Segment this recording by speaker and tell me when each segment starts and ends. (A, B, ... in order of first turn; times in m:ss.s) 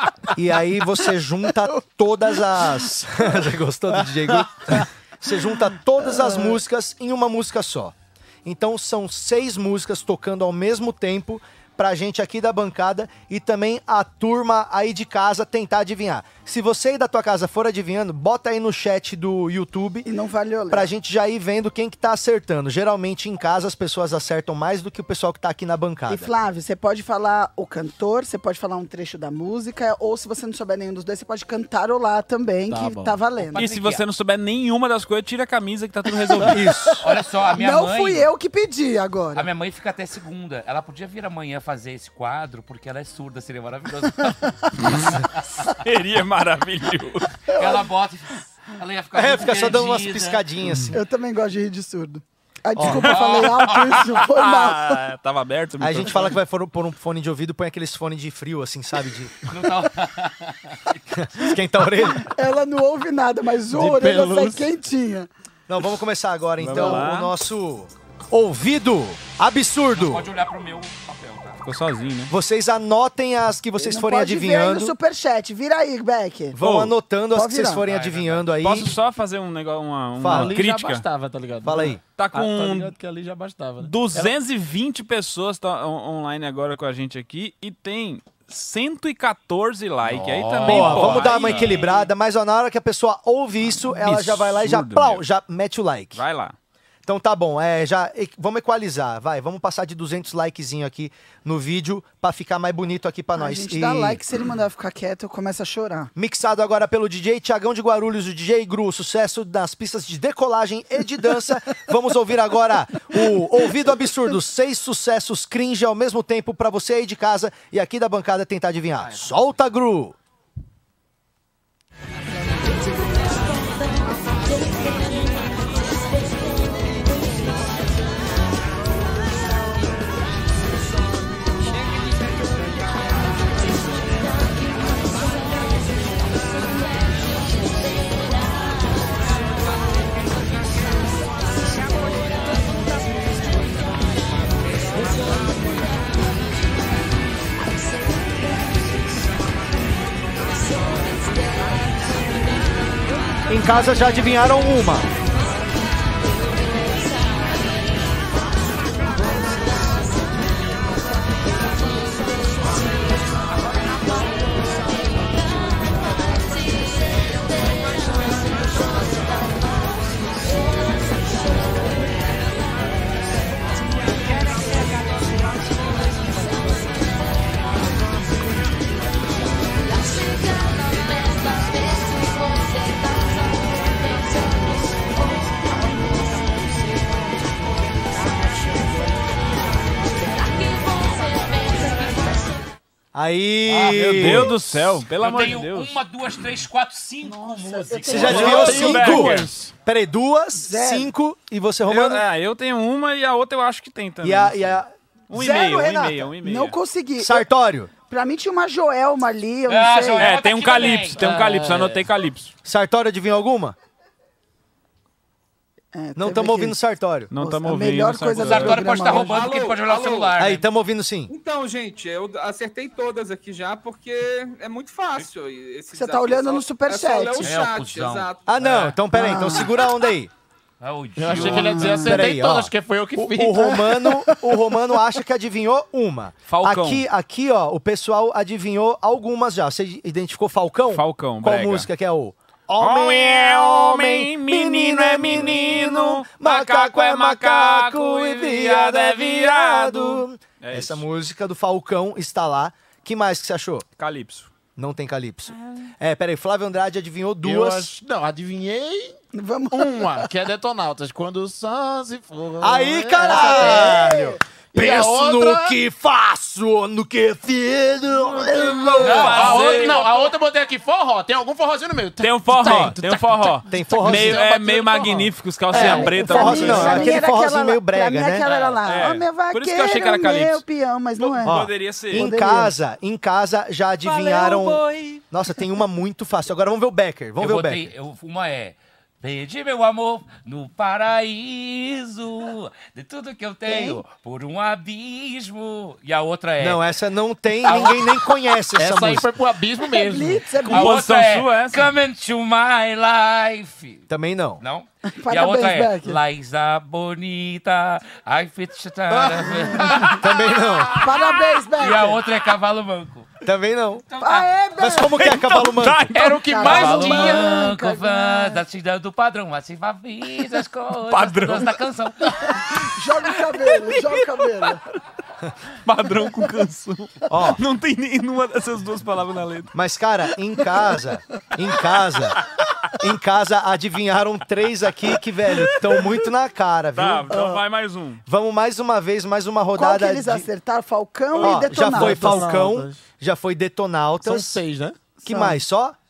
0:00.3-0:20.1 A
0:06.2-0:06.5 B
0:20.0-0:20.9 B
0:20.7-0:26.3 A
0:26.1-0:33.7 B
0:32.7-0:33.2 C
0:33.5-0:34.0 D
0:33.5-0:36.7 E
0:36.4-0:37.0 A
0:37.0-0:38.3 D
0:37.6-0:39.5 B
0:39.3-0:45.4 D
0:44.8-0:47.3 E
0:47.5-0:47.8 B
0:47.5-0:50.4 D
0:49.1-0:51.0 A
0:50.9-0:55.0 B
0:52.8-0:53.2 A
0:52.8-0:56.3 E
0:53.0-0:54.0 D
0:55.8-0:59.3 A
0:59.4-1:01.6 D
1:01.1-1:02.3 A
1:02.0-1:05.3 B
1:03.7-1:04.7 C
1:05.7-1:10.3 A
1:06.6-1:07.3 E
1:06.7-1:07.0 B
1:09.9-1:11.6 D
1:11.6-1:12.3 E
1:12.3-1:14.9 A
1:13.8-1:16.6 B
1:16.5-1:18.9 A
1:16.6-1:16.9 E
1:17.3-1:17.8 B
1:17.8-1:18.5 D
1:18.6-1:21.0 E
1:20.2-1:20.6 A
1:20.2-1:24.3 C
1:21.6-1:22.0 A
1:22.2-1:22.9 E
1:23.8-1:31.9 E
1:30.0-1:31.6 C
1:30.6-1:36.2 A
1:31.1-1:32.0 D
1:33.9-1:35.2 E
1:36.1-1:36.5 E
1:37.0-1:44.2 A
1:43.4-1:46.1 B
1:46.2-2:00.2 A
1:59.0-1:59.4 D
2:33.5-2:35.1 A
3:13.1-3:14.5 A
3:13.6-3:18.9 D
3:13.8-3:16.0 E
3:17.2-3:18.8 B
3:18.0-3:22.2 A
3:18.2-3:19.7 C
3:18.3-3:19.5 E
3:20.6-3:21.1 B
3:21.9-3:26.8 E
3:24.2-3:26.3 A
3:26.4-3:27.5 B
3:27.2-3:27.9 A
3:28.1-3:30.3 B
3:29.7-3:31.4 D
3:30.2-3:32.5 E
3:31.2-3:32.0 C
3:32.6-3:33.8 A
3:35.9-3:36.8 B
3:36.2-3:37.3 A
3:37.3-3:39.2 E
3:37.3-3:39.4 B
3:38.4-3:40.6 D
3:39.1-3:40.4 F
3:40.4-3:41.3 A
3:41.3-3:48.5 F
3:45.9-3:47.5 B
3:47.4-3:49.0 D
3:48.5-3:50.3 A
3:49.1-3:49.8 B
3:50.8-3:52.0 D
3:51.2-3:54.1 C
3:51.4-3:52.2 B
3:52.0-4:13.8 A
3:56.5-3:57.0 E
4:00.9-4:01.9 E
4:02.8-4:11.0 E
4:14.0-4:14.5 E
4:14.8-4:17.9 A
4:17.4-4:19.2 C
4:19.3-4:20.3 B
4:19.7-4:24.0 C
4:22.6-4:29.4 A
4:23.2-4:24.4 B
4:24.7-4:25.8 C
4:28.4-4:29.2 B
4:28.9-4:30.0 E
4:29.0-4:30.3 D
4:29.1-4:37.0 C
4:32.2-4:37.2 E
4:32.5-4:33.0 A
4:33.7-4:34.5 A
4:35.7-4:38.5 A
4:35.7-4:42.7 B
4:38.4-4:38.8 D
4:38.8-4:40.6 E
4:41.2-4:42.2 E
4:41.4-4:47.9 A
4:44.0-4:45.2 E
4:47.4-4:56.8 D
4:53.6-4:54.0 B
4:56.6-4:59.3 A
4:57.6-4:58.6 D
4:58.8-5:00.5 C
4:59.9-5:01.0 B
5:00.6-5:01.9 E
5:00.6-5:04.0 D
5:04.1-5:04.6 A
5:04.6-5:13.3 D
5:05.0-5:06.2 B
5:10.0-5:11.0 A
5:10.9-5:12.2 B
5:13.4-5:14.0 A
5:14.1-5:14.5 D
5:14.2-5:15.4 B
5:14.8-5:16.2 A
5:15.1-5:17.3 E
5:16.2-5:22.6 D
5:16.2-5:17.5 C
5:16.4-5:18.6 B
5:21.0-5:21.8 E
5:22.7-5:24.8 B
5:23.4-5:24.8 E
5:25.8-5:29.7 E
5:27.3-5:27.6 A
5:29.7-5:32.4 A
5:33.0-5:37.4 A
5:35.6-5:36.1 E
5:36.9-5:38.2 E
5:37.3-5:37.6 B
5:38.3-5:40.5 A
5:39.7-5:42.4 B
5:41.4-5:44.6 A
5:41.8-5:43.0 C
5:44.2-5:45.0 C
5:45.2-5:45.6 B
5:45.2-5:46.0 A